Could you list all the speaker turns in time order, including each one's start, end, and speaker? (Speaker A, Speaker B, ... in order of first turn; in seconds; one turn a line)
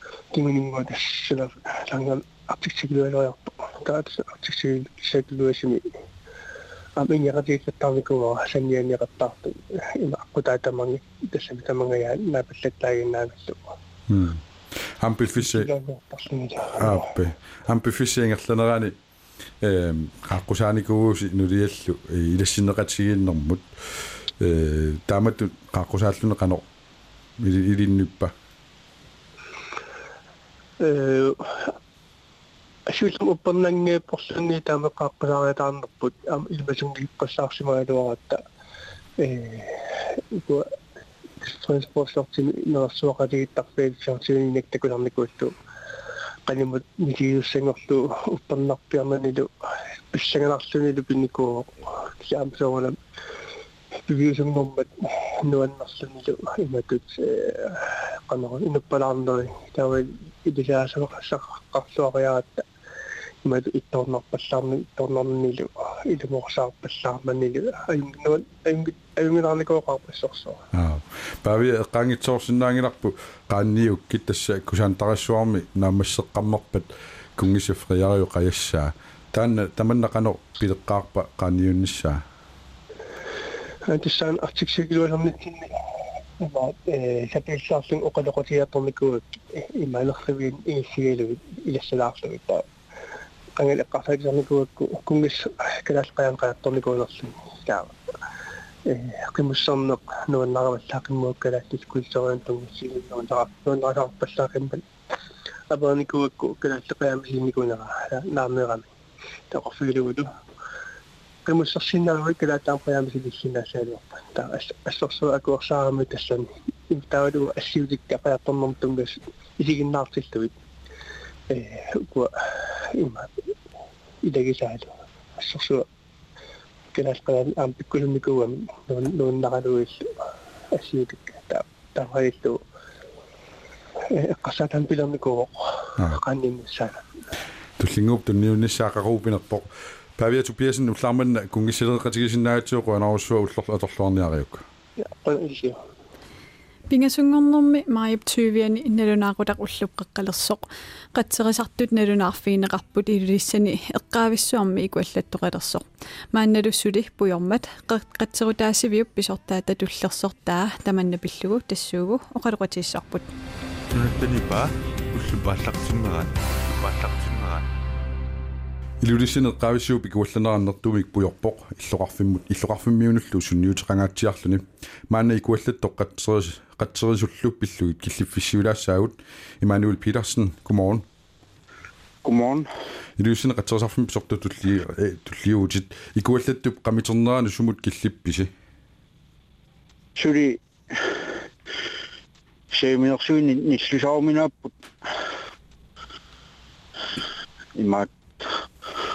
Speaker A: 0.3-5.8
Speaker A: 7.0-13.8
Speaker B: 14.1-14.4
Speaker B: 15.0-15.7
Speaker A: 15.4-17.1
Speaker B: 16.8-19.0
Speaker B: 19.6-26.6
Speaker B: 27.4-28.3
Speaker A: 30.8-31.7
Speaker A: 32.9-38.4
Speaker A: 39.2-39.8
Speaker A: 40.3-40.7
Speaker A: 41.4-45.5
Speaker A: 46.5-49.5
Speaker A: 50.1-53.0
Speaker A: 54.1-54.9
Speaker A: 55.5-62.6
Speaker A: 63.5-70.6
Speaker B: 70.7-82.2
Speaker A: 83.9-85.8
Speaker A: 86.4-92.6
Speaker A: 93.6-98.0
Speaker A: 98.9-104.8
Speaker A: 105.7-108.9
Speaker A: 109.5-110.3
Speaker A: 111.5-120.5
Speaker A: 121.5-122.3
Speaker A: 123.0-123.3
Speaker A: 124.2-125.8
Speaker A: 126.9-130.0
Speaker A: 130.7-132.6
Speaker A: 134.1-137.0
Speaker B: 137.8-144.6
Speaker A: 145.0-145.8
Speaker C: 146.9-163.3
Speaker D: 163.9-167.6
Speaker B: 169.0-181.1
Speaker E: 182.2-182.7
Speaker B: 183.2-188.5
Speaker E: 190.1-191.3
Speaker E: 192.7-194.8
Speaker E: 197.8-198.6